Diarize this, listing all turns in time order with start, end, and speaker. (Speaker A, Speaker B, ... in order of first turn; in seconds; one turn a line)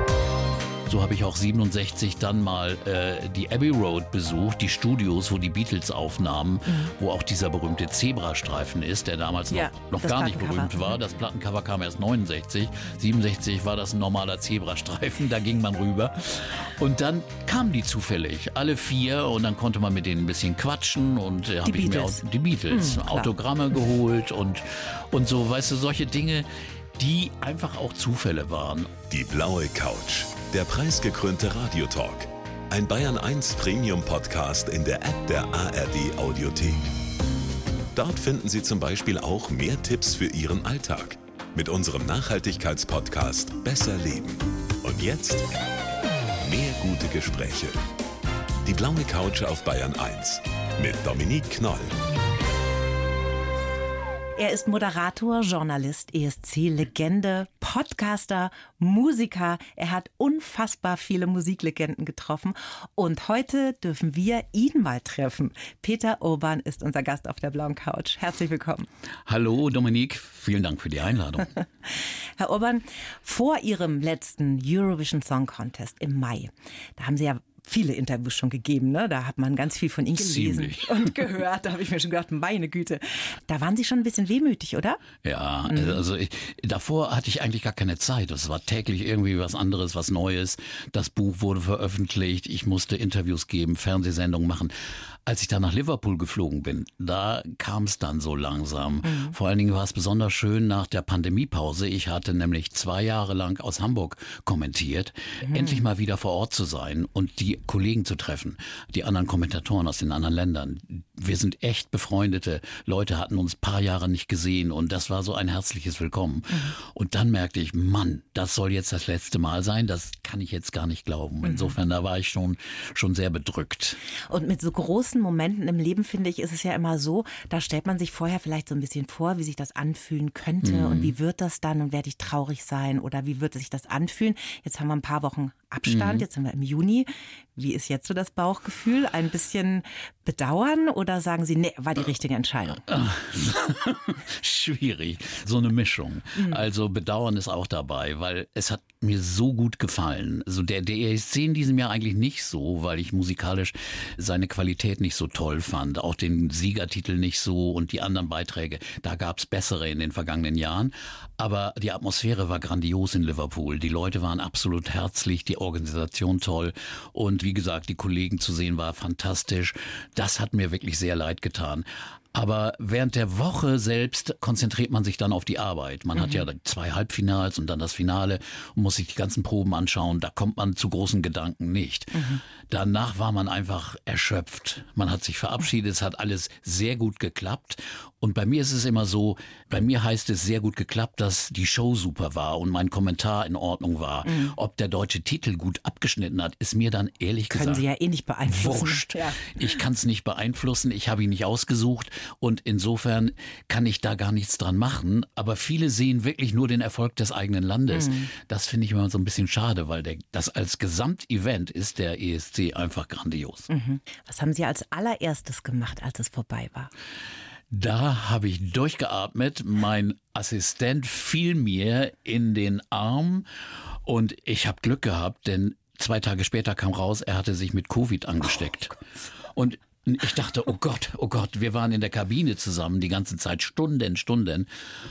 Speaker A: 0.8-29.0
Speaker B: 9.5-10.9
Speaker B: 21.6-23.3
Speaker C: 29.1-37.0
Speaker C: 37.9-45.5
Speaker C: 46.4-47.8
Speaker C: 48.6-52.0
Speaker B: 54.4-68.9
Speaker A: 69.2-71.5
Speaker B: 72.4-85.0
Speaker A: 80.2-81.2
Speaker A: 85.2-124.0
Speaker B: 85.7-86.0
Speaker B: 99.0-99.3
Speaker B: 105.4-105.8
Speaker B: 121.4-121.7
Speaker B: 124.3-142.8
Speaker A: 130.6-131.1
Speaker A: 135.8-136.2
Speaker A: 142.9-197.8
Speaker B: 146.3-146.6
Speaker B: 182.1-182.4
Speaker B: 194.2-194.6
Speaker B: 197.5-199.6
Speaker A: 198.4-213.7
Speaker B: 207.9-208.3
Speaker B: 213.7-216.9
Speaker A: 217.7-223.5
Speaker A: 224.0-229.0
Speaker A: 229.5-234.7